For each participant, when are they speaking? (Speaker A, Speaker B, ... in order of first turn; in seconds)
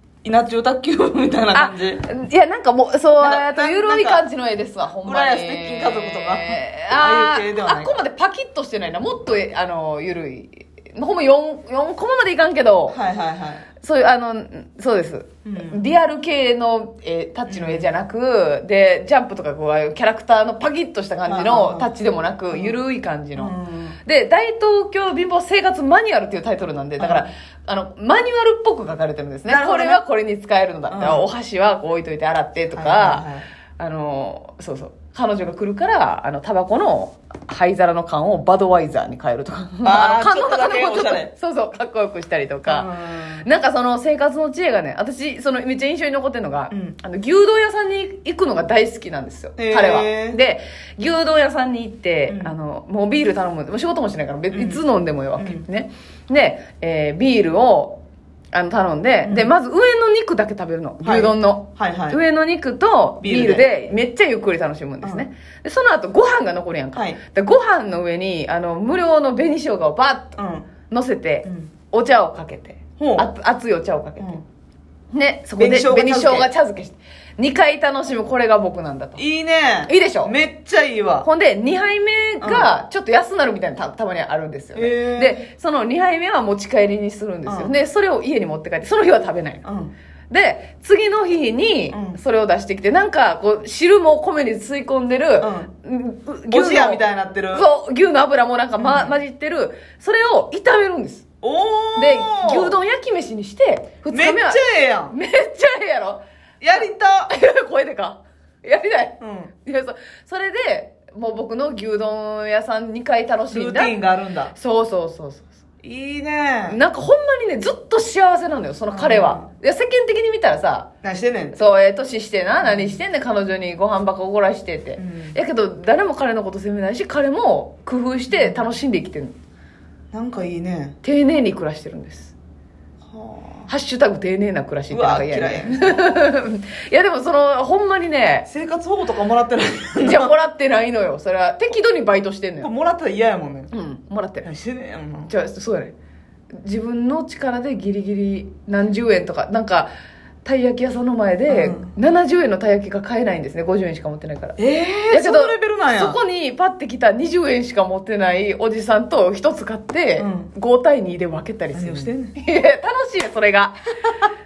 Speaker A: 0.2-2.0, 3.2-4.2, 5.0-8.0, 12.9-13.7, 15.4-15.8, 17.5-17.9, 21.2-21.9, 22.5-22.8, 23.4-24.0, 27.0-27.3, 29.4-30.0, 30.9-31.3, 32.7-33.5, 39.8-41.3, 42.6-43.5, 46.7-47.0, 49.6-50.4, 52.3-52.5, 54.5-54.8, 55.4-55.6, 59.2-59.5, 61.0-62.2, 63.2-63.6, 70.4-70.7, 71.4-71.7, 73.0-73.3, 75.6-76.5, 79.2-81.3, 82.4-82.7, 84.7-85.4, 87.5-87.7, 89.6-89.9, 91.9-92.2, 95.4-95.7, 96.5-97.6, 98.8-99.2, 101.4-102.7, 104.1-105.1, 106.6-107.3, 109.2-109.5, 113.5-114.5, 115.8-116.8, 118.9-119.5, 121.0-121.6, 122.6-123.0, 125.0-125.3, 128.3-128.6, 130.1-130.9, 133.0-133.7, 134.9-136.2, 138.5-140.3, 142.6-143.7, 144.4-145.3, 151.5-151.9, 154.6-156.2, 160.2-160.5, 161.7-162.3
Speaker B: 1.5-13.0, 13.8-23.5, 24.0-33.2, 33.8-42.9, 43.4-58.0, 58.5-70.4, 70.9-74.4, 75.1-79.2, 79.9-80.3, 81.2-89.6, 90.3-97.0, 97.5-101.2, 102.0-106.2, 106.8-113.9, 114.5-115.5, 116.7-120.9, 121.5-129.3, 131.0-132.3, 133.7-138.5, 140.0-142.7, 143.7-144.5, 145.3-145.9, 146.6-149.9, 150.4-154.6, 155.1-163.7